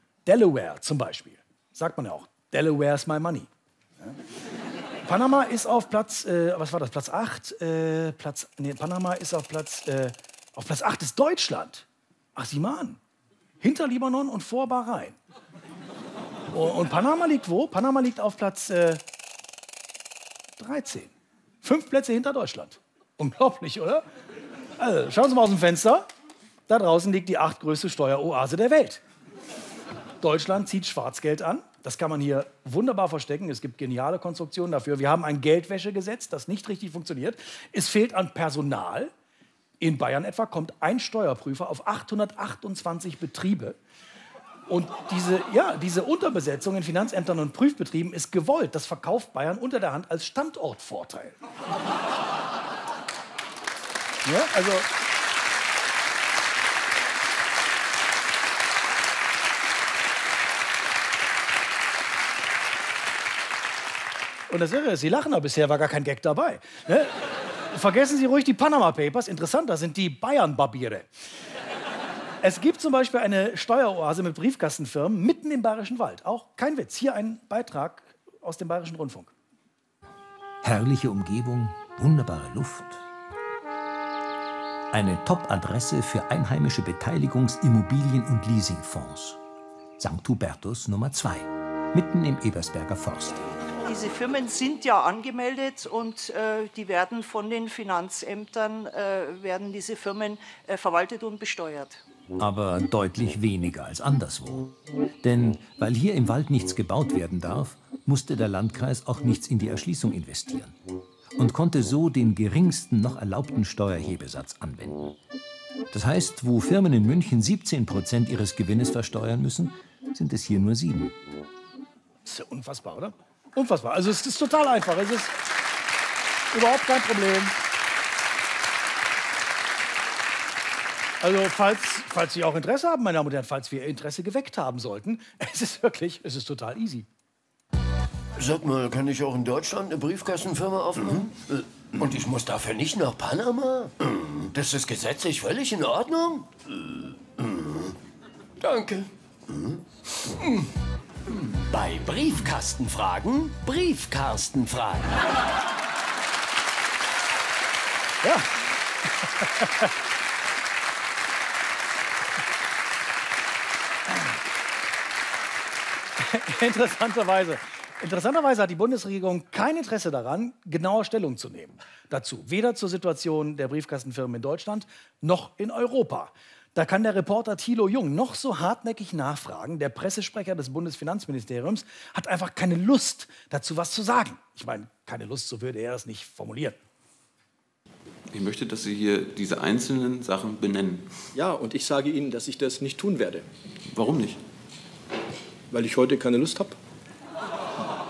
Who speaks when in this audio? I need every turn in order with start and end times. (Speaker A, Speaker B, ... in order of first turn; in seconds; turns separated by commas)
Speaker A: 0.2-3.5, Speaker A: 5.0-13.0, Speaker A: 13.6-15.2, Speaker A: 16.5-19.0, Speaker A: 20.6-21.1, Speaker A: 21.6-24.0, Speaker A: 24.8-26.1, Speaker A: 26.7-29.0, Speaker A: 30.2-39.1, Speaker A: 39.8-43.8, Speaker A: 44.7-51.4, Speaker A: 54.2-54.9, Speaker A: 64.5-67.1, Speaker A: 67.7-71.1, Speaker A: 72.4-79.3, Speaker B: 80.6-83.0, Speaker B: 84.9-89.4, Speaker B: 90.0-93.5, Speaker C: 93.8-102.0, Speaker B: 102.3-110.8, Speaker B: 111.3-115.1, Speaker B: 115.9-121.1, Speaker A: 122.2-125.3, Speaker A: 126.5-127.6, Speaker A: 131.2-137.1, Speaker D: 138.3-147.9, Speaker D: 148.6-150.7, Speaker D: 151.4-155.2, Speaker A: 158.2-158.5, Speaker A: 159.3-159.9, Speaker A: 166.2-186.8, Speaker E: 188.3-191.1, Speaker F: 191.3-193.4, Speaker E: 193.9-194.4, Speaker F: 195.7-196.8